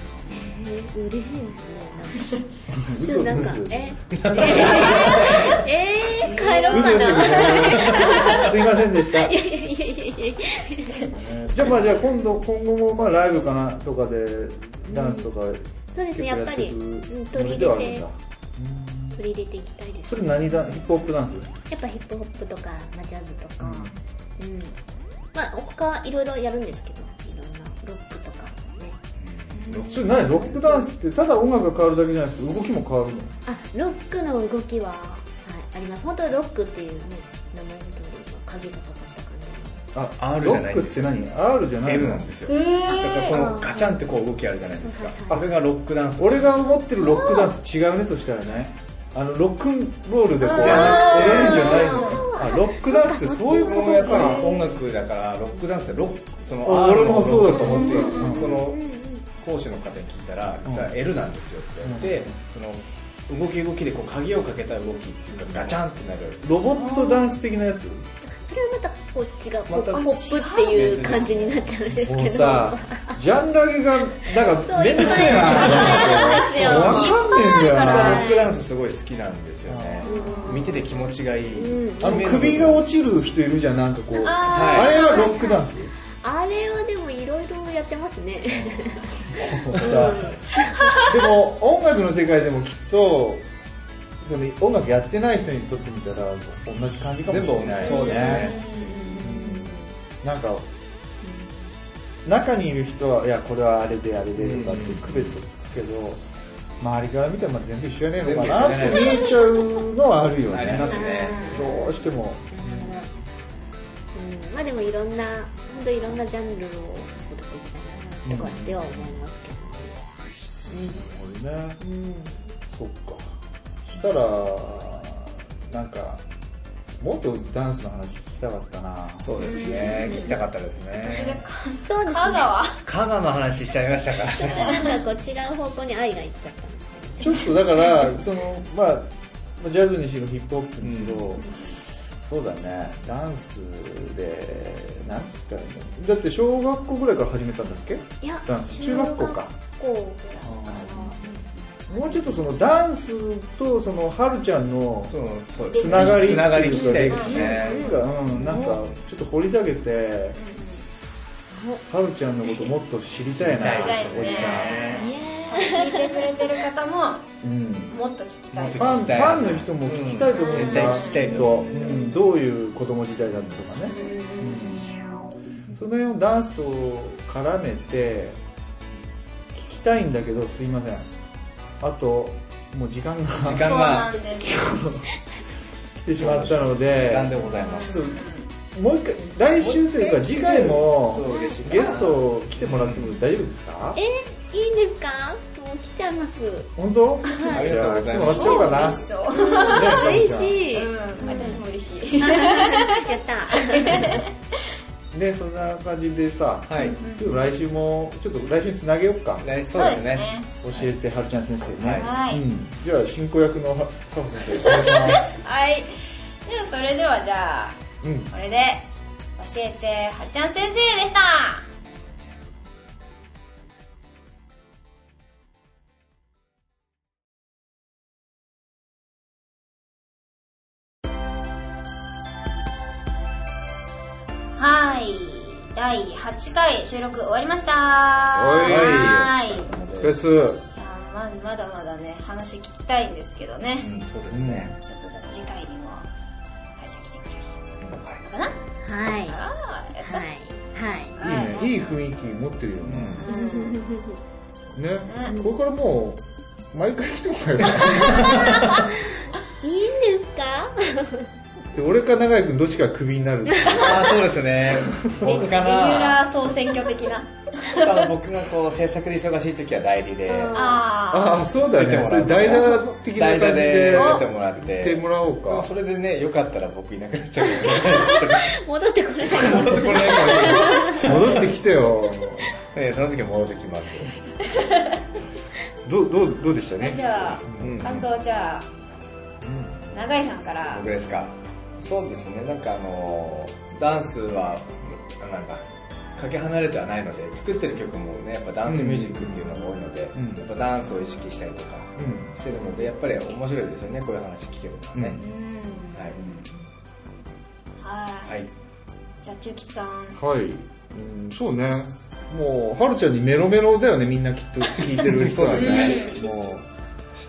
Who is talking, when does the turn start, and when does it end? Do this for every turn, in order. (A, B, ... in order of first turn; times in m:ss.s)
0:00.3-0:11.1 A
0:02.7-0:05.6 B
0:04.1-0:05.6 C
0:04.4-0:05.5 D
0:06.1-0:07.4 D
0:06.6-0:09.4 B
0:07.2-0:08.5 C
0:11.1-0:19.2 B
0:14.9-0:15.3 A
0:15.9-0:18.0 A
0:19.2-0:20.9 A
0:20.0-0:21.5 B
0:21.7-0:24.8 A
0:23.6-0:23.9 B
0:25.3-0:29.0 A
0:29.2-0:30.5 C
0:29.5-0:30.0 D
0:29.7-0:33.4 B
0:29.9-0:30.9 A
0:33.4-0:39.9 A
0:39.9-0:42.3 B
0:40.2-0:41.1 C
0:41.8-0:46.5 C
0:42.5-0:43.4 D
0:42.9-0:44.0 A
0:44.7-0:45.4 A
0:46.2-0:54.5 B
0:47.0-0:47.5 D
0:50.4-0:52.3 D
0:50.6-0:51.9 C
0:50.7-0:54.6 A
0:53.6-0:58.8 C
0:56.6-0:58.6 B
0:57.5-0:58.4 D
0:57.7-0:59.2 A
0:59.4-1:06.4 C
1:00.6-1:01.0 B
1:01.8-1:02.3 B
1:06.4-1:08.0 B
1:06.7-1:07.3 D
1:08.4-1:13.2 A
1:09.7-1:11.8 C
1:09.9-1:11.4 D
1:12.0-1:18.3 B
1:14.4-1:18.5 A
1:15.1-1:17.0 C
1:15.4-1:18.3 D
1:17.8-1:22.8 C
1:19.7-1:20.1 B
1:20.0-1:20.8 D
1:20.0-1:20.8 A
1:21.6-1:22.4 A
1:22.0-1:25.9 B
1:24.1-1:25.6 D
1:24.5-1:25.0 C
1:24.8-1:25.6 A
1:26.2-1:31.1 A
1:28.5-1:33.5 B
1:34.2-1:38.6 B
1:37.3-1:38.6 C
1:37.8-1:39.4 D
1:37.9-1:39.9 A
1:39.1-1:40.7 B
1:41.2-1:41.7 A
1:42.2-1:46.2 B
1:44.4-1:45.3 C
1:46.8-1:53.0 B
1:48.2-1:49.4 C
1:50.5-1:51.4 C
1:50.8-1:51.8 D
1:50.8-1:53.1 A
1:54.1-2:00.0 A
1:58.2-1:59.2 B
2:00.6-2:01.1 A
2:00.9-2:01.8 B
2:01.8-2:02.6 A
2:02.7-2:06.2 B
2:07.0-2:09.3 B
2:09.2-2:11.4 C
2:09.4-2:10.4 A
2:11.0-2:12.8 D
2:11.8-2:12.5 A
2:12.8-2:14.8 C
2:14.4-2:18.0 A
2:14.5-2:14.9 D
2:17.2-2:29.5 B
2:20.8-2:21.4 C
2:21.4-2:21.7 D
2:28.2-2:31.2 A
2:30.4-2:31.2 B
2:31.2-2:31.4 D
2:31.9-2:32.4 A
2:31.9-2:35.1 B
2:35.1-2:38.9 C
2:35.7-2:40.4 B
2:35.8-2:36.4 D
2:37.1-2:37.7 D
2:37.1-2:38.8 A
2:40.4-2:40.8 D
2:41.5-2:41.8 A
2:41.9-2:44.8 B
2:42.4-2:42.7 A
2:43.4-2:45.1 C
2:43.6-2:47.3 D
2:44.8-2:46.3 A
2:47.4-2:47.9 B
2:47.9-2:49.5 D
2:48.5-2:52.0 C
2:48.8-2:54.9 B
2:50.3-2:52.0 D
2:50.5-2:52.2 A
2:53.9-2:54.9 A
2:55.7-2:58.4 B
2:59.5-3:01.1 B
3:01.8-3:03.8 B
3:03.4-3:04.1 C
3:03.6-3:04.7 D
3:04.3-3:05.1 B
3:06.0-3:14.0 B
3:06.2-3:08.2 C
3:07.5-3:08.5 D
3:09.6-3:13.1 C
3:11.3-3:11.6 A
3:14.0-3:16.7 A
3:16.8-3:19.0 B
3:17.3-3:21.6 A
3:17.5-3:18.8 C
3:18.3-3:24.3 D
3:19.7-3:20.6 B
3:21.2-3:21.5 B
3:22.2-3:24.2 A
3:25.1-3:29.5 B
3:26.7-3:27.0 C
3:26.8-3:27.4 D
3:29.4-3:30.9 C
3:29.7-3:30.5 D
3:30.6-3:35.3 B
3:31.8-3:32.1 C
3:32.0-3:32.4 D
3:34.6-3:37.8 D
3:38.0-3:38.3 B
3:38.3-3:41.7 D
3:54.6-3:59.7 D
3:58.3-3:59.2 B
3:58.6-4:00.2 C
4:00.0-4:00.6 B
4:00.7-4:03.9 D
4:03.8-4:04.7 C
4:04.3-4:04.8 B
4:04.8-4:06.1 D
4:06.8-4:07.6 D
4:07.8-4:08.3 C
4:08.2-4:08.6 D
4:08.8-4:09.4 A
4:09.2-4:10.3 D
4:10.0-4:11.2 A
4:11.1-4:12.0 D
4:11.2-4:13.3 B
4:12.8-4:13.2 C
4:13.2-4:13.8 D
4:13.3-4:14.2 A
4:14.7-4:18.7 B
4:15.1-4:15.4 D
4:17.6-4:18.8 C
4:18.7-4:21.3 A
4:21.7-4:24.2 B
4:23.5-4:23.8 A
4:23.8-4:26.3 C
4:24.8-4:25.5 B
4:25.2-4:28.1 D
4:27.7-4:30.6 C
4:30.3-4:30.9 A
4:30.5-4:31.4 D
4:31.1-4:35.7 B
4:31.7-4:38.6 C
4:32.6-4:32.9 A
4:33.9-4:34.2 D
4:37.6-4:41.2 A
4:39.2-4:41.5 C
4:41.0-4:42.5 B
4:42.6-4:44.2 C
4:44.5-4:44.9 D
4:45.8-4:48.1 B
4:46.8-4:48.7 D
4:47.6-4:48.1 C
4:49.4-4:49.8 B
4:49.9-4:50.9 D
4:50.7-5:05.2 C
4:58.6-4:59.6 B
5:00.1-5:00.5 B
5:02.0-5:02.3 B
5:05.0-5:05.2 B
5:05.2-5:06.5 D
5:06.0-5:06.2 C
5:07.8-5:08.4 D
5:09.2-5:10.2 D
5:10.1-5:16.6 B
5:15.0-5:16.0 C
5:15.5-5:16.3 D